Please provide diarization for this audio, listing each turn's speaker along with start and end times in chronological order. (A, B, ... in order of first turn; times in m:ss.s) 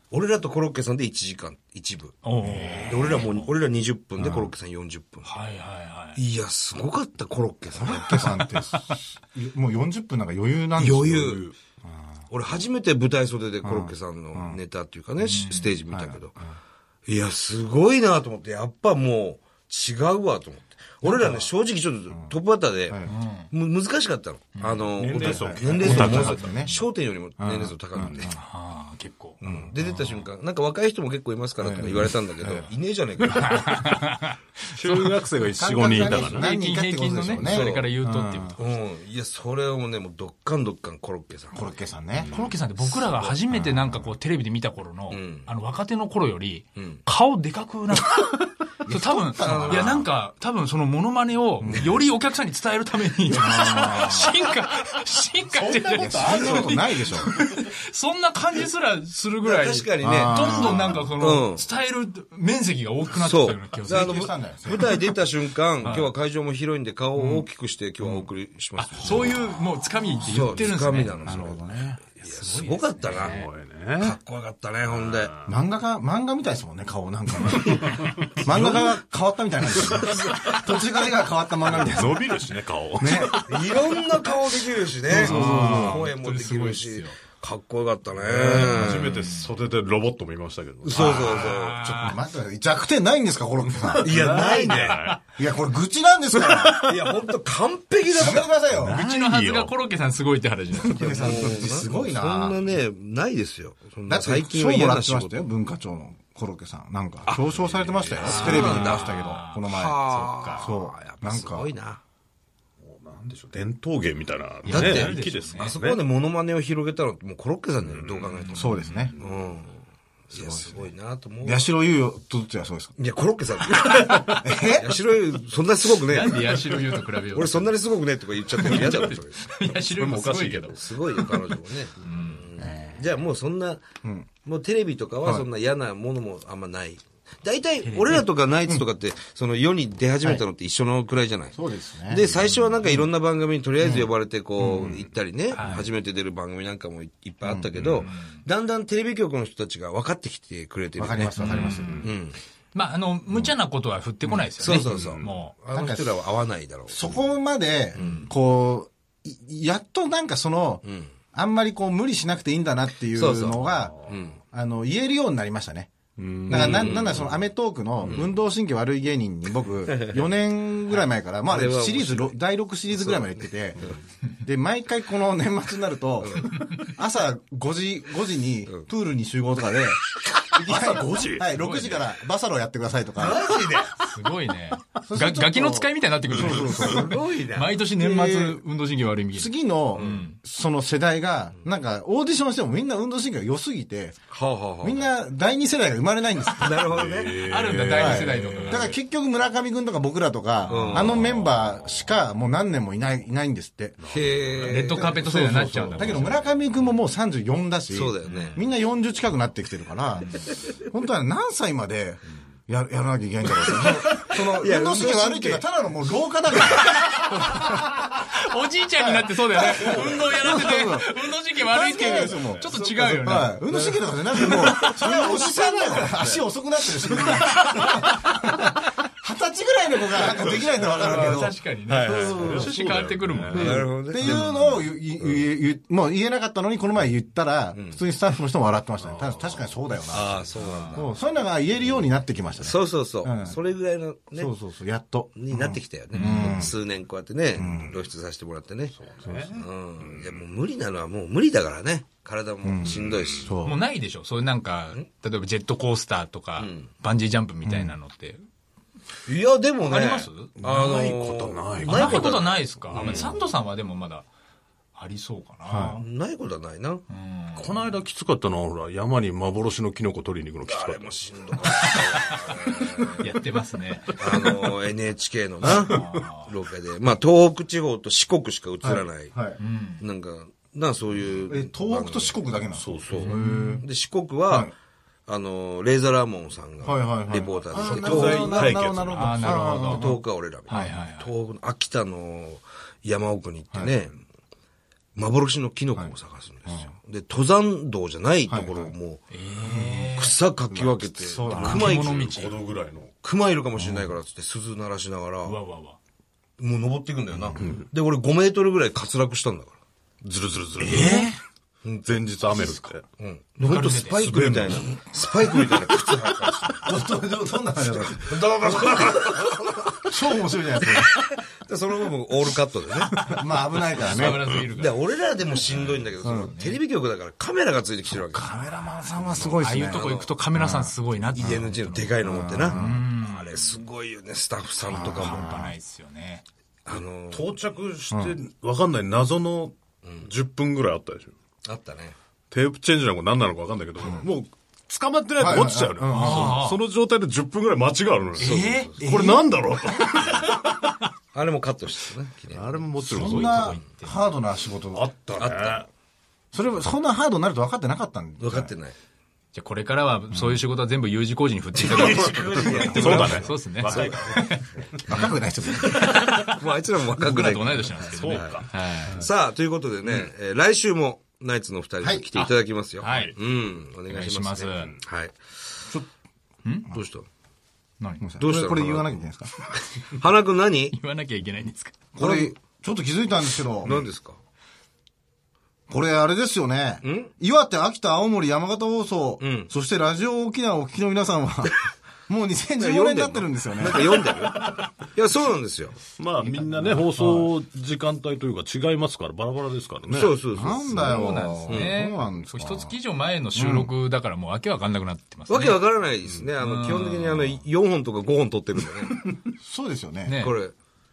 0:00.1-0:02.2 A
0:02.2-0:03.3 B
0:02.4-0:03.1 C
0:02.8-0:05.3 A
0:04.2-0:04.5 C
0:05.2-0:06.2 B
0:06.2-0:08.4 A
0:07.7-0:12.2 C
0:08.1-0:08.9 B
0:10.8-0:11.5 A
0:12.3-0:16.4 A
0:13.6-0:14.6 C
0:15.2-0:15.8 B
0:15.9-0:16.2 C
0:17.1-0:28.3 A
0:21.0-0:21.4 B
0:22.1-0:22.4 C
0:23.1-0:23.5 B
0:24.6-0:24.9 B
0:25.0-0:26.6 D
0:25.2-0:26.8 C
0:26.0-0:26.6 B
0:27.4-0:28.4 C
0:28.0-0:29.4 B
0:29.4-0:33.7 A
0:29.5-0:30.2 C
0:31.6-0:32.7 C
0:33.3-0:35.2 B
0:34.8-0:36.5 D
0:35.6-0:38.6 C
0:36.0-0:38.6 B
0:37.4-0:37.9 A
0:38.6-0:41.6 A
0:41.5-0:42.3 C
0:42.2-0:42.6 D
0:42.3-1:04.3 B
0:43.1-0:43.4 A
0:43.5-0:44.0 C
0:45.1-0:45.5 A
0:46.8-0:47.0 A
0:48.8-0:50.1 C
0:49.4-0:50.0 A
0:51.6-0:52.0 C
0:53.3-0:54.4 C
0:55.5-0:57.3 C
0:59.4-1:01.6 A
1:00.0-1:01.1 C
1:03.2-1:09.4 A
1:03.8-1:05.1 C
1:05.8-1:06.1 B
1:07.2-1:07.5 C
1:08.8-1:11.5 B
1:10.2-1:13.4 A
1:11.2-1:12.0 C
1:12.2-1:13.5 B
1:13.1-1:14.2 D
1:14.0-1:15.3 A
1:14.9-1:15.4 D
1:15.4-1:22.3 C
1:18.3-1:18.9 D
1:19.9-1:20.4 D
1:21.7-1:23.8 D
1:23.0-1:23.5 C
1:23.4-1:29.2 A
1:25.1-1:26.1 C
1:25.1-1:27.2 B
1:28.4-1:28.8 C
1:28.4-1:31.3 D
1:28.5-1:29.6 B
1:30.8-1:31.8 A
1:30.9-1:37.0 C
1:31.2-1:32.2 B
1:33.8-1:35.2 D
1:34.0-1:35.2 A
1:36.8-1:38.5 A
1:38.2-1:39.0 C
1:38.7-1:39.7 D
1:38.9-1:41.2 B
1:40.8-1:42.6 C
1:40.9-1:45.5 A
1:44.1-1:50.0 C
1:47.6-1:48.6 D
1:48.2-1:50.7 B
1:48.2-1:52.0 A
1:50.6-1:51.7 C
1:52.8-1:56.0 D
1:54.6-1:55.8 B
1:54.7-2:01.7 A
1:57.8-1:58.2 D
1:58.4-1:59.2 B
1:58.5-1:59.2 C
2:00.3-2:00.9 C
2:01.4-2:03.0 C
2:03.0-2:09.4 A
2:04.3-2:05.0 C
2:06.1-2:07.8 B
2:08.6-2:11.3 B
2:09.9-2:10.9 D
2:10.7-2:13.8 A
2:12.0-2:12.4 B
2:12.6-2:13.0 C
2:14.0-2:14.3 C
2:14.4-2:32.4 A
2:17.8-2:18.2 B
2:21.5-2:22.3 C
2:23.8-2:25.0 C
2:25.5-2:25.9 B
2:27.4-2:27.7 C
2:28.0-2:28.4 B
2:31.0-2:32.0 C
2:31.4-2:32.0 B
2:31.8-2:32.1 D
2:32.7-2:35.5 B
2:34.2-2:34.6 C
2:34.6-2:37.0 A
2:34.8-2:35.4 D
2:35.7-2:36.1 C
2:36.9-2:44.0 C
2:38.0-2:38.3 A
2:40.8-2:41.1 A
2:43.1-2:44.4 A
2:43.8-2:44.1 D
2:44.5-2:45.9 C
2:46.2-2:47.4 D
2:46.5-2:47.3 A
2:46.5-2:53.9 C
2:48.0-2:48.3 A
2:49.9-2:50.2 A
2:51.4-2:52.4 A
2:52.9-2:54.0 A
2:54.4-3:03.6 C
2:56.2-2:56.5 A
3:00.5-3:01.5 D
3:01.5-3:02.1 B
3:03.2-3:03.9 A
3:04.0-3:10.4 B
3:05.0-3:07.2 C
3:06.3-3:06.8 D
3:06.8-3:07.8 A
3:08.0-3:08.6 C
3:09.3-3:14.2 C
3:10.0-3:10.2 A
3:14.3-3:15.1 A
3:14.8-3:17.0 C
3:16.6-3:17.4 A
3:16.9-3:19.0 D
3:17.5-3:19.0 B
3:17.9-3:24.1 C
3:20.7-3:21.3 A
3:20.7-3:22.1 D
3:24.0-3:26.7 D
3:24.1-3:25.1 A
3:24.6-3:26.4 B
3:24.9-3:37.9 C
3:27.9-3:28.6 A
3:28.2-3:28.6 B
3:30.2-3:30.5 B
3:33.8-3:35.6 A
3:36.8-3:43.6 B
3:39.0-3:52.9 C
3:42.3-3:43.2 D
3:43.7-3:46.0 A
3:45.9-3:46.4 D
3:47.7-3:48.1 B
3:50.8-3:51.2 D
3:50.9-3:54.8 B
3:51.9-3:53.8 D
3:53.5-4:03.6 C
3:53.5-3:54.5 A
3:57.7-3:58.0 A
3:59.0-3:59.7 D
4:00.1-4:01.1 A
4:00.6-4:01.1 B
4:02.6-4:04.5 A
4:04.4-4:06.8 C
4:05.4-4:09.0 A
4:06.2-4:06.7 B
4:07.6-4:08.0 C
4:09.0-4:10.4 D
4:09.2-4:09.6 C
4:09.5-4:13.5 A
4:12.6-4:13.8 C
4:13.6-4:18.4 B
4:16.6-4:16.9 A
4:17.6-4:18.0 C
4:19.3-4:23.4 A
4:19.8-4:20.5 B
4:20.6-4:22.4 D
4:21.8-4:24.3 B
4:22.9-4:23.4 D
4:25.0-4:26.0 B
4:25.6-4:26.0 C
4:26.0-4:27.0 A
4:27.1-4:27.8 B
4:27.6-4:31.2 D
4:30.6-4:33.2 A
4:31.6-4:32.3 B
4:33.2-4:34.2 B
4:34.2-4:39.3 A
4:35.6-4:36.5 B
4:35.7-4:36.2 D
4:38.8-4:39.6 C
4:39.6-4:40.0 B
4:40.0-4:42.4 A
4:41.5-4:43.9 C
4:42.8-4:43.2 D
4:43.0-4:44.7 A
4:43.2-4:43.8 B
4:45.3-4:48.8 A
4:46.8-4:51.0 C
4:47.7-4:49.8 D
4:49.1-4:50.2 B
4:49.8-4:54.2 A
4:50.7-4:51.3 B
4:55.2-4:59.2 A
4:56.0-4:56.9 C
4:58.5-4:58.9 C
4:59.3-5:00.3 B
4:59.7-5:00.1 C
5:00.2-5:02.2 A
5:00.8-5:01.9 C
5:01.5-5:02.6 B
5:01.5-5:03.1 D
5:03.2-5:05.6 A
5:05.4-5:06.0 B
5:06.6-5:09.8 A
5:10.2-5:11.3 D
5:10.8-5:11.4 C
5:11.8-5:12.1 A
5:12.0-5:13.0 D
5:13.2-5:16.9 A
5:13.6-5:14.2 B
5:14.0-5:14.8 D
5:16.7-5:19.2 C
5:17.9-5:20.1 A
5:20.0-5:21.2 C
5:21.1-5:23.1 A
5:23.1-5:26.8 B
5:23.2-5:24.6 C
5:24.2-5:28.5 A
5:26.2-5:26.6 C
5:28.1-5:31.6 C
5:29.0-5:33.8 B
5:29.4-5:30.3 A
5:31.4-5:35.5 A
5:32.2-5:33.1 C
5:34.9-5:36.4 B
5:34.9-5:35.8 C
5:36.9-5:37.5 A
5:37.3-5:41.3 D
5:38.1-5:38.4 C
5:40.0-5:40.3 A
5:41.6-5:42.2 A
5:42.5-5:50.5 D
5:45.4-5:46.6 C
5:46.1-5:46.8 B
5:48.4-5:49.0 A
5:48.4-5:49.0 B
5:49.0-5:49.5 C
5:51.3-5:52.9 A
5:52.5-5:53.8 D
5:53.0-5:54.2 B
5:53.1-5:55.1 C
5:54.9-5:55.9 D
5:55.3-5:55.8 A
5:56.5-5:58.7 C
5:58.4-5:59.0 A
5:59.5-6:04.6 B
6:01.8-6:04.4 A
6:01.8-6:05.3 D
6:02.5-6:03.4 C
6:05.1-6:06.2 C
6:05.9-6:15.4 A
6:06.1-6:06.6 B
6:07.2-6:09.2 B
6:08.0-6:09.3 D
6:12.0-6:12.3 C
6:12.4-6:13.4 B
6:13.1-6:13.3 D
6:14.1-6:15.0 B
6:16.6-6:16.9 B
6:16.9-6:17.3 A
6:18.2-6:19.7 C
6:18.4-6:19.1 A
6:20.0-6:21.0 A
6:20.9-6:22.0 B
6:22.2-6:24.1 C
6:22.2-6:22.6 A
6:23.8-6:24.4 A
6:25.9-6:34.2 C
6:27.0-6:27.3 A
6:29.4-6:29.7 A
6:32.8-6:36.0 A
6:36.2-6:40.4 D
6:36.5-6:37.0 C
6:37.2-6:37.5 B
6:40.1-6:42.0 A
6:40.5-6:43.0 C
6:40.8-6:45.8 B
6:43.5-6:43.9 C
6:45.5-6:49.2 A
6:46.6-6:47.6 B
6:49.5-6:50.4 C
6:50.2-6:50.5 B
6:50.4-6:50.7 A